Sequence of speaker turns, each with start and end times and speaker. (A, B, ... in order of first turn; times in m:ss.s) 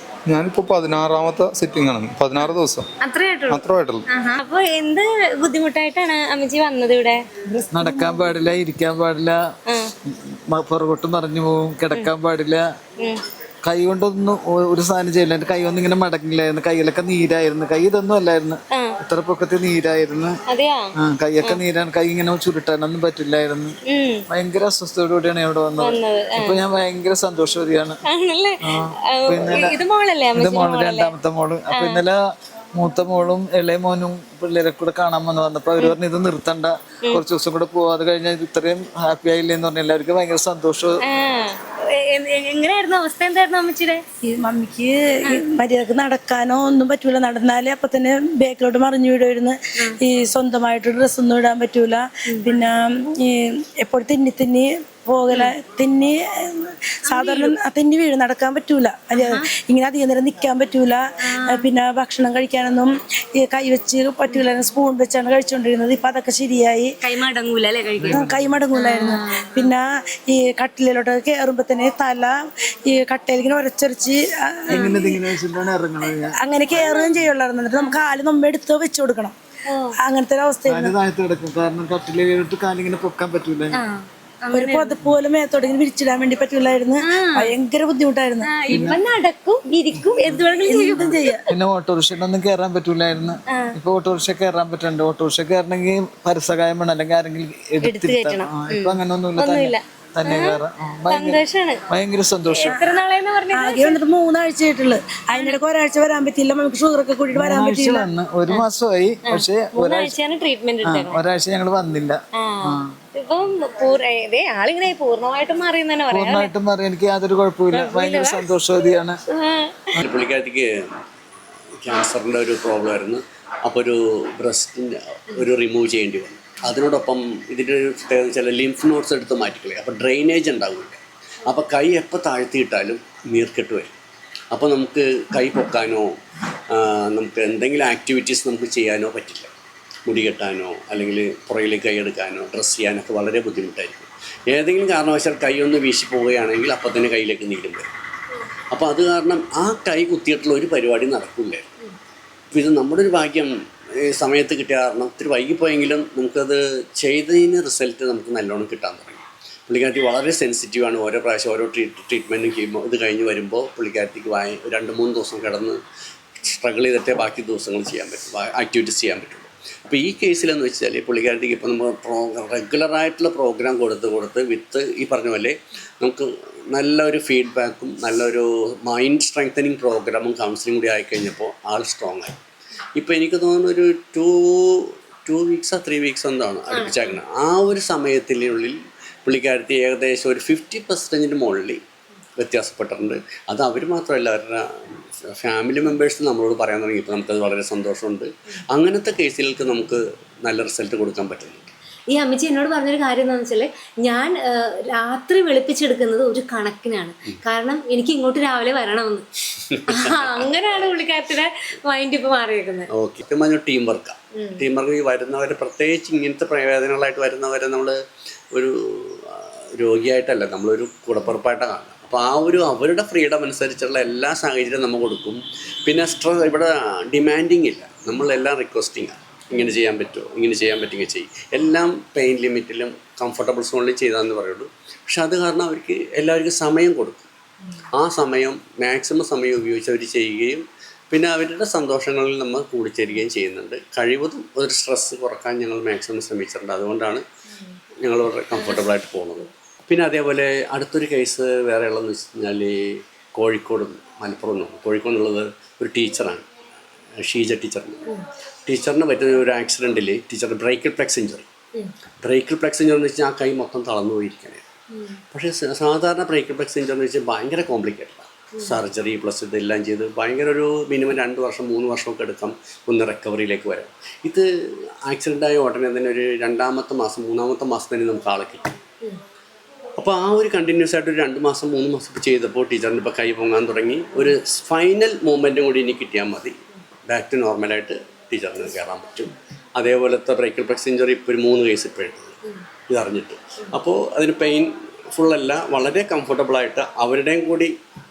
0:00.3-0:02.9 A
0:03.0-0:07.2 B
0:03.5-0:04.0 A
0:07.5-0:08.2 C
0:07.7-0:09.4 D
0:09.7-0:09.9 B
0:10.5-0:12.6 D
0:13.6-0:20.4 D
0:18.7-0:19.0 B
0:20.4-0:21.6 B
0:21.0-0:23.7 D
0:23.8-0:24.2 B
0:24.3-0:28.0 D
0:25.8-0:26.6 B
0:28.0-0:31.1 B
0:28.6-0:29.8 D
0:30.3-0:32.2 D
0:31.7-0:32.0 B
0:32.8-0:41.0 D
0:41.0-0:44.0 B
0:44.2-1:06.9 C
0:57.0-0:57.5 B
0:59.2-0:59.5 B
1:01.2-1:01.6 B
1:07.0-1:09.7 B
1:08.0-1:08.5 D
1:08.1-1:15.1 C
1:14.7-1:15.2 B
1:14.7-1:16.4 D
1:16.4-1:19.3 C
1:16.8-1:17.1 B
1:19.7-1:20.0 B
1:20.0-1:21.0 C
1:20.7-1:23.8 D
1:23.7-1:24.9 B
1:24.5-1:28.9 C
1:27.0-1:27.5 B
1:28.4-1:31.4 B
1:28.7-1:29.0 D
1:30.6-1:31.4 C
1:31.5-1:42.7 D
1:33.5-1:33.7 B
1:37.8-1:41.8 B
1:42.5-1:44.0 B
1:43.5-1:48.1 C
1:45.3-1:45.6 B
1:47.3-1:50.1 D
1:49.2-1:51.2 B
1:50.8-1:52.9 D
1:52.3-1:56.5 B
1:56.1-1:59.2 D
1:57.7-1:58.4 B
1:59.3-1:59.9 B
2:00.0-2:00.7 E
2:01.8-2:13.9 E
2:14.5-2:16.1 E
2:16.7-2:19.5 E
2:20.0-2:27.9 E
2:28.7-2:31.7 E
2:32.5-2:33.5 E
2:34.0-2:45.8 E
2:46.4-3:02.3 E
3:03.0-3:11.8 E
3:06.7-3:07.1 B
3:12.4-3:21.7 E
3:22.1-3:29.2 B
3:29.6-3:30.4 E
3:29.9-3:32.9 B
3:32.9-3:38.0 E
3:34.3-3:34.6 B
3:38.5-3:57.3 E
3:58.0-4:07.2 E
4:08.0-4:16.4 E
4:17.2-4:18.0 E
4:18.7-4:21.5 E
4:22.2-4:24.6 E
4:25.3-4:34.5 E
4:35.1-4:38.7 E
4:40.0-4:46.6 E
4:47.1-4:52.4 E
4:52.9-4:57.7 E